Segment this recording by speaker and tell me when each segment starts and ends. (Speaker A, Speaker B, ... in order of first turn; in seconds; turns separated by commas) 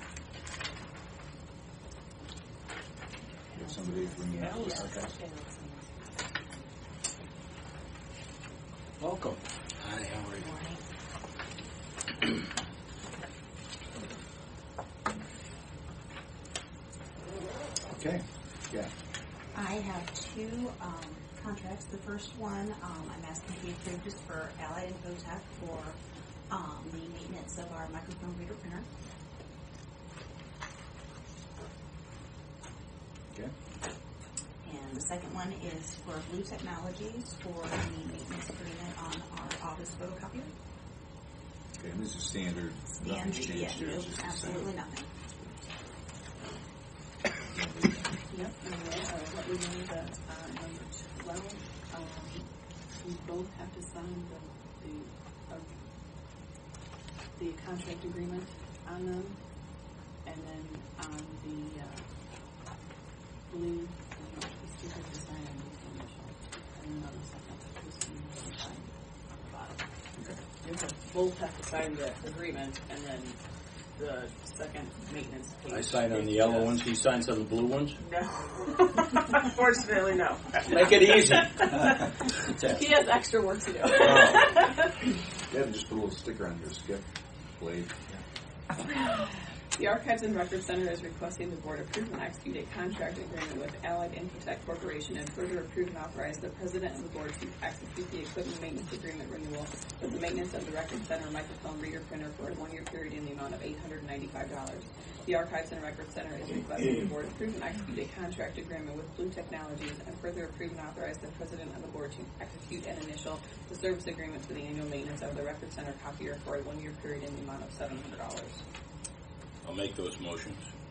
Speaker A: 3.5-5.2, Speaker B: 3.5-6.7, Speaker C: 9.0-10.5, Speaker D: 10.4-10.8, Speaker A: 17.9-18.9, Speaker D: 19.5-26.0, Speaker D: 26.5-28.9, Speaker D: 34.6-40.5, Speaker A: 41.8-44.8, Speaker D: 42.9-45.1, Speaker A: 47.5-48.2, Speaker B: 48.3-55.7, Speaker B: 57.4-59.4, Speaker B: 60.2-62.1, Speaker B: 63.5-69.8, Speaker B: 70.6-73.4, Speaker B: 73.9-76.7, Speaker C: 75.7-78.0, Speaker B: 78.0-80.8, Speaker C: 80.7-82.8, Speaker B: 82.7-84.9, Speaker A: 84.0-84.5, Speaker A: 85.5-87.0, Speaker A: 87.6-88.2, Speaker B: 88.8-118.6, Speaker C: 119.6-120.6